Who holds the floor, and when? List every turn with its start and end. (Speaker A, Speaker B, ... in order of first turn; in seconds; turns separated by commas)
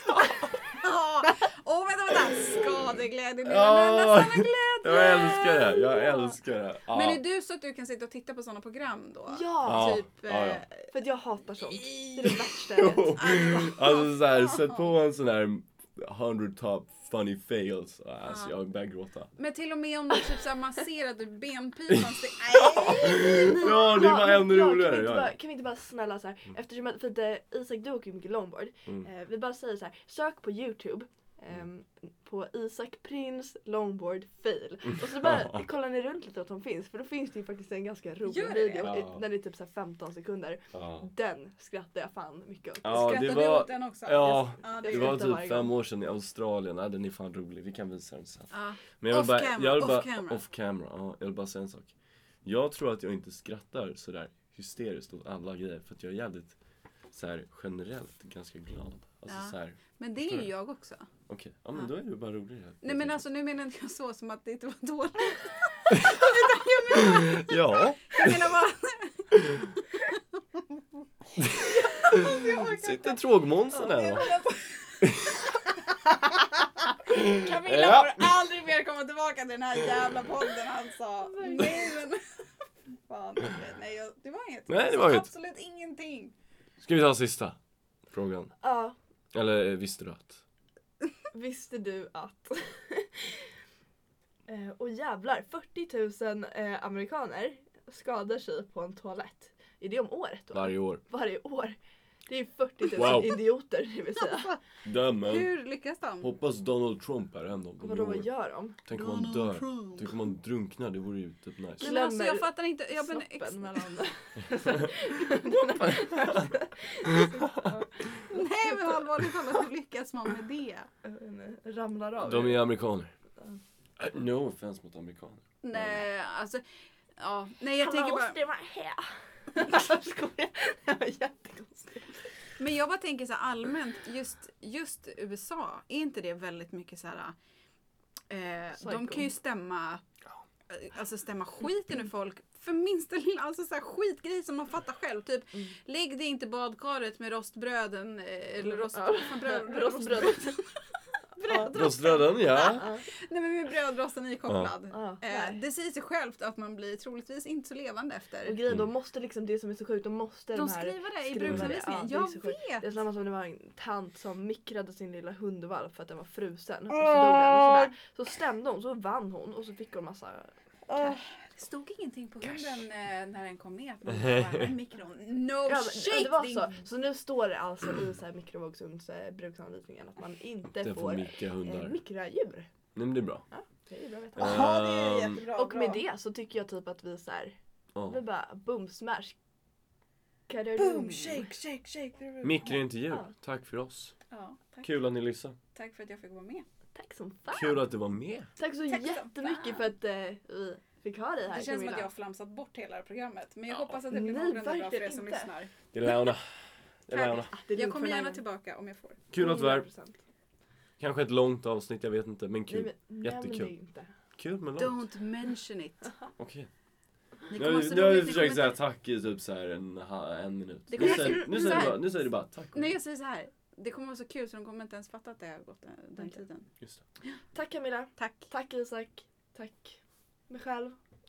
Speaker A: 0.7-5.9, Speaker B: 3.4-7.2, Speaker A: 6.9-10.9, Speaker C: 9.3-10.0, Speaker B: 9.6-10.6, Speaker C: 10.9-13.2, Speaker A: 11.7-12.2, Speaker B: 12.2-19.3, Speaker A: 13.2-14.8, Speaker A: 18.2-18.5, Speaker A: 19.4-23.6, Speaker B: 21.9-25.3, Speaker C: 23.1-43.5, Speaker A: 38.2-39.0, Speaker B: 38.8-39.2, Speaker B: 40.7-41.1, Speaker B: 42.8-51.9, Speaker A: 42.9-45.3, Speaker C: 44.6-45.7, Speaker A: 48.5-50.4, Speaker B: 52.4-56.5, Speaker B: 57.1-60.5, Speaker A: 59.3-61.1, Speaker B: 61.3-63.2, Speaker A: 62.8-70.2, Speaker B: 66.9-68.5, Speaker B: 71.4-74.3, Speaker A: 71.5-75.2, Speaker B: 75.0-75.4, Speaker B: 77.1-78.3, Speaker A: 77.1-82.2, Speaker C: 81.3-81.9, Speaker A: 83.1-86.3, Speaker B: 84.7-85.3, Speaker B: 86.8-87.6, Speaker B: 88.1-88.5, Speaker C: 88.6-88.9, Speaker B: 89.3-90.4, Speaker C: 91.3-93.5, Speaker C: 94.5-104.6, Speaker B: 100.5-101.0, Speaker B: 103.0-103.3, Speaker B: 104.8-105.5, Speaker A: 105.2-106.3, Speaker B: 106.2-108.2, Speaker C: 107.8-108.8, Speaker B: 108.9-111.9, Speaker A: 108.9-110.1, Speaker A: 111.8-113.9, Speaker C: 111.8-119.0, Speaker B: 115.8-116.5, Speaker B: 117.0-117.3, Speaker A: 118.3-120.9, Speaker C: 121.0-122.7, Speaker B: 122.2-123.1, Speaker B: 124.0-126.0, Speaker A: 125.6-126.6, Speaker A: 127.2-128.4, Speaker C: 127.8-132.2, Speaker A: 132.6-137.3, Speaker A: 138.3-140.0, Speaker C: 138.8-139.3, Speaker A: 140.7-150.8, Speaker C: 148.7-150.6, Speaker A: 151.3-158.6, Speaker B: 151.7-152.9, Speaker C: 152.7-153.0, Speaker C: 154.9-155.6, Speaker C: 158.4-171.2, Speaker A: 160.5-163.0, Speaker A: 166.9-167.9, Speaker A: 170.9-176.7, Speaker B: 174.1-174.7, Speaker C: 175.7-182.7, Speaker B: 180.8-182.0, Speaker B: 182.9-183.4, Speaker C: 183.5-184.8, Speaker B: 184.3-185.4, Speaker A: 184.4-186.0, Speaker C: 185.5-189.3, Speaker C: 190.5-191.5, Speaker A: 190.8-192.8, Speaker B: 192.4-194.1, Speaker A: 194.3-194.9, Speaker B: 194.8-195.6, Speaker A: 195.7-196.7, Speaker C: 196.9-197.8, Speaker B: 197.5-198.5, Speaker C: 198.6-202.1, Speaker A: 198.9-199.9, Speaker A: 201.5-205.7, Speaker C: 204.1-205.5, Speaker B: 205.9-207.5, Speaker A: 207.1-209.2, Speaker C: 207.5-208.4, Speaker B: 209.3-209.9, Speaker C: 209.3-210.2, Speaker B: 211.0-213.7, Speaker C: 212.7-214.1, Speaker B: 214.3-215.0, Speaker A: 214.8-216.1, Speaker B: 216.4-216.7, Speaker A: 217.5-218.8, Speaker B: 217.5-222.9, Speaker A: 220.9-226.7, Speaker C: 221.1-221.9, Speaker C: 227.5-230.0, Speaker A: 228.2-228.5, Speaker C: 230.5-231.0